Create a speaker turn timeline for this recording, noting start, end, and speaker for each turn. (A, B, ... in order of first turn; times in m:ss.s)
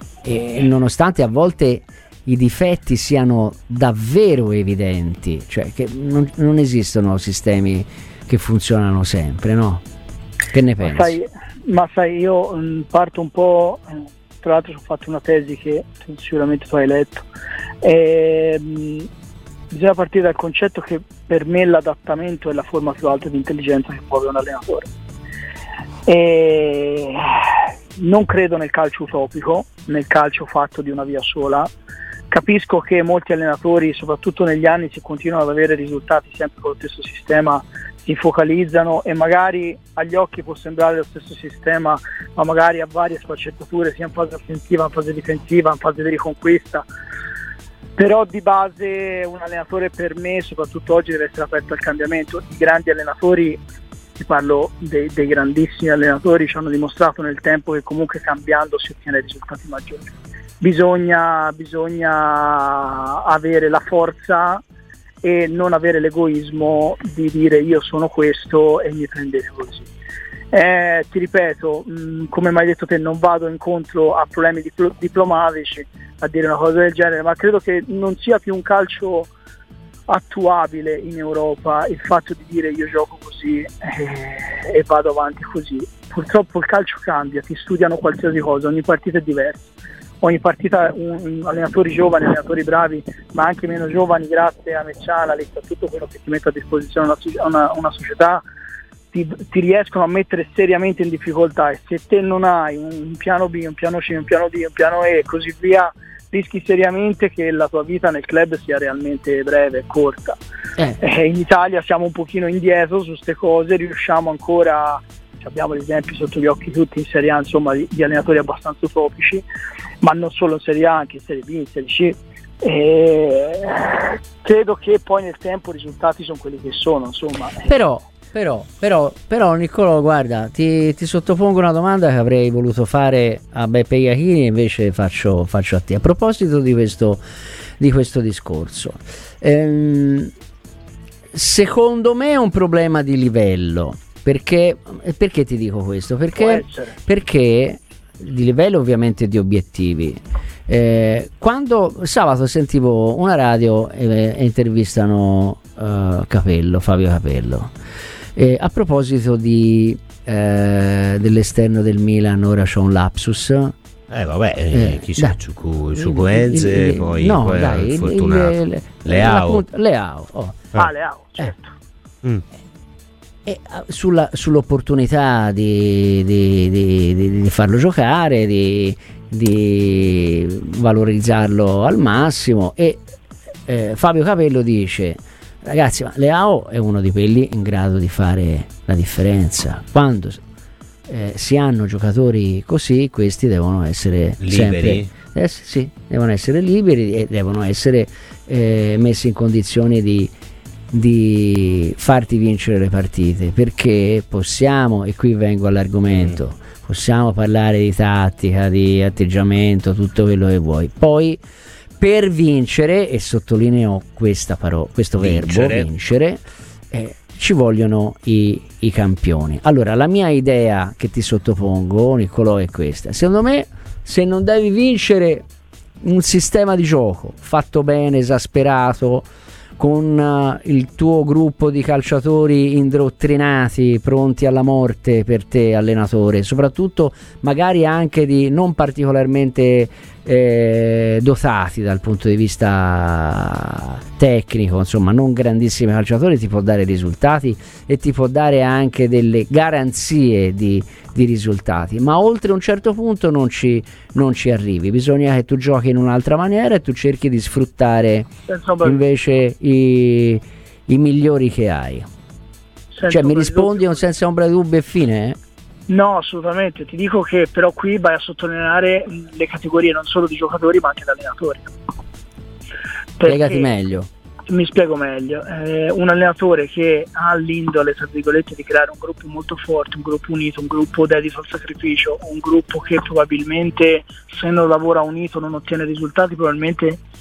0:00.2-0:09.8 A
0:10.5-0:11.2 A
0:10.8-0:17.3 B
0:17.8-0:19.1 B
0:19.7-0:24.9 B
0:26.0-0:31.7 B
0:32.3-0:46.8 B
0:48.0-0:53.6 B
0:54.2-1:04.6 B
1:05.2-1:09.9 B
1:10.5-1:19.3 B
1:20.1-1:29.7 B
1:30.2-1:38.4 B
1:39.1-1:50.4 B
1:51.0-1:59.4 B
2:00.0-2:07.7 B
2:07.6-2:17.2 A
2:17.8-2:20.3 A
2:21.3-2:37.7 A
2:26.4-2:27.0 B
2:38.4-2:43.7 A
2:44.1-2:49.6 C
2:44.7-2:45.4 A
2:46.0-2:50.7 A
2:50.7-2:51.7 B
2:53.4-3:03.0 A
3:03.7-3:10.4 A
3:11.1-3:20.3 A
3:14.4-3:15.1 C
3:20.9-3:31.4 A
3:26.1-3:26.4 C
3:32.0-3:45.4 A
3:35.2-3:35.9 C
3:46.0-3:49.3 A
3:49.8-4:18.3 A
4:18.5-4:19.0 B
4:18.8-4:22.1 A
4:22.9-4:24.1 B
4:23.1-4:25.4 A
4:25.9-4:31.7 B
4:33.2-4:33.7 B
4:33.2-4:34.1 A
4:34.5-4:47.0 B